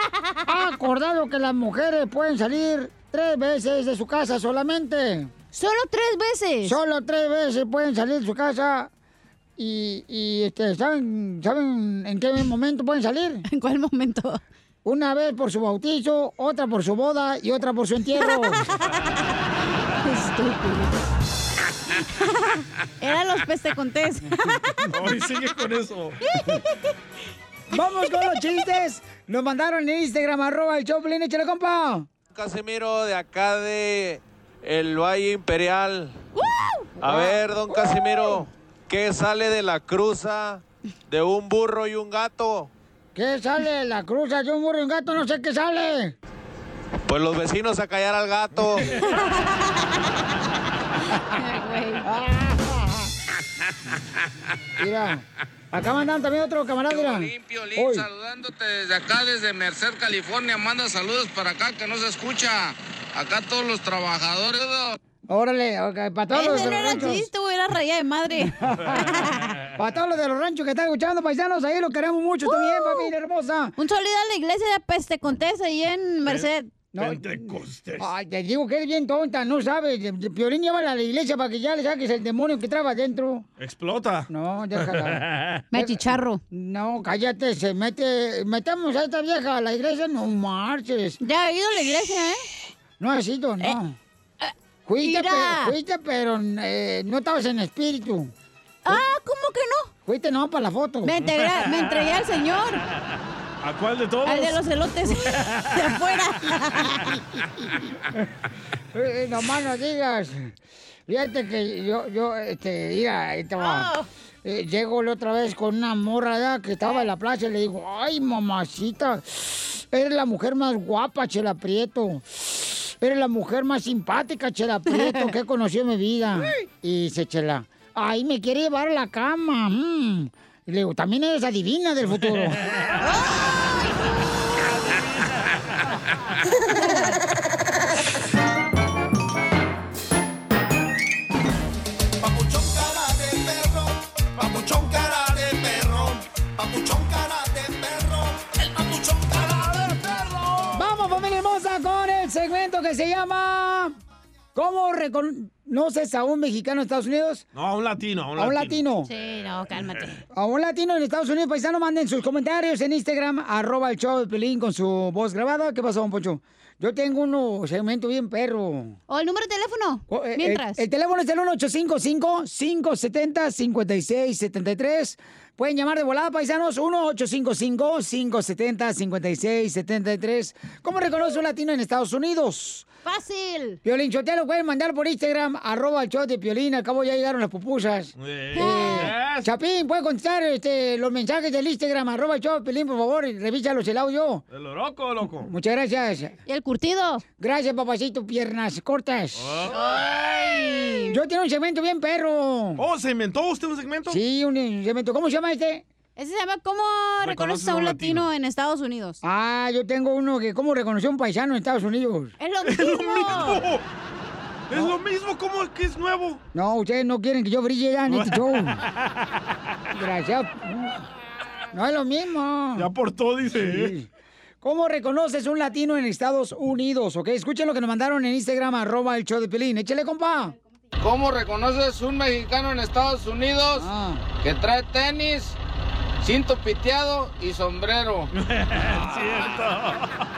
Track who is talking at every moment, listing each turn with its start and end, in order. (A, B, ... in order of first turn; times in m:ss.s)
0:00.5-0:05.3 A
0:05.5-0:06.8 B
0:06.6-0:08.9 A
0:09.6-0:13.4 A
0:13.5-0:14.4 B
0:14.8-0:18.7 A
0:18.2-0:19.0 B
0:20.0-0:21.0 B
0:22.2-0:24.9 B
0:24.9-0:26.2 C
0:26.2-0:26.8 B
0:27.7-0:32.1 A
0:32.3-0:36.2 D
0:36.4-0:36.9 B
0:37.0-0:42.7 D
0:37.0-0:38.4 A
0:43.1-0:46.1 A
0:47.0-0:48.8 D
0:49.0-0:49.7 B
0:51.1-0:52.1 B
0:52.0-0:53.1 A
0:54.8-0:58.1 A
0:56.9-1:05.0 E
1:05.3-1:07.3 A
1:06.3-1:09.4 B
1:08.4-1:13.7 A
1:12.4-1:13.1 B
1:13.8-1:16.7 B
1:16.2-1:18.1 C
1:16.9-1:23.5 A
1:23.6-1:25.6 C
1:24.3-1:31.2 A
1:25.7-1:26.4 B
1:31.2-1:32.5 B
1:33.0-1:34.0 A
1:34.4-1:35.7 B
1:34.8-1:38.3 A
1:38.8-1:39.9 B
1:40.0-1:41.1 A
1:41.0-1:42.8 B
1:41.6-1:42.0 C
1:43.6-1:44.6 C
1:44.2-1:47.2 B
1:45.3-1:45.7 C
1:48.9-1:50.5 A
1:51.1-2:12.6 A
1:53.6-1:54.1 B
2:04.9-2:05.3 B
2:13.0-2:14.0 B
2:14.7-2:15.6 C
2:16.7-2:17.2 B
2:22.2-2:30.8 F
2:30.7-2:33.9 A
2:34.5-2:37.5 A
2:37.5-2:38.8 C
2:38.4-2:39.1 A
2:39.0-2:40.2 B
2:40.3-2:49.0 A
2:49.1-2:50.8 B
2:50.1-3:02.9 A
3:03.0-3:03.8 B
3:03.8-3:14.4 A
3:08.2-3:09.5 C
3:08.5-3:09.1 B
3:14.5-3:15.5 C
3:15.4-3:16.4 A
3:16.4-3:17.2 B
3:17.4-3:19.6 A
3:19.4-3:20.0 C
3:19.7-3:21.2 B
3:21.1-3:22.8 A
3:22.8-3:24.2 C
3:24.1-3:25.8 A
3:26.2-3:29.2 B
3:27.2-3:28.3 C
3:29.2-3:32.3 A
3:32.4-3:33.6 B
3:32.6-3:33.8 C
3:34.7-3:36.4 C
3:36.5-3:38.8 A
3:38.1-3:39.1 C
3:39.9-3:41.0 A
3:41.7-3:42.9 A
3:42.8-3:43.9 C
3:43.5-3:44.1 A
3:44.6-3:50.5 A
3:51.0-3:53.8 G
3:53.7-3:54.2 A
3:54.4-3:55.5 G
3:56.2-3:58.3 G
3:58.3-4:00.1 C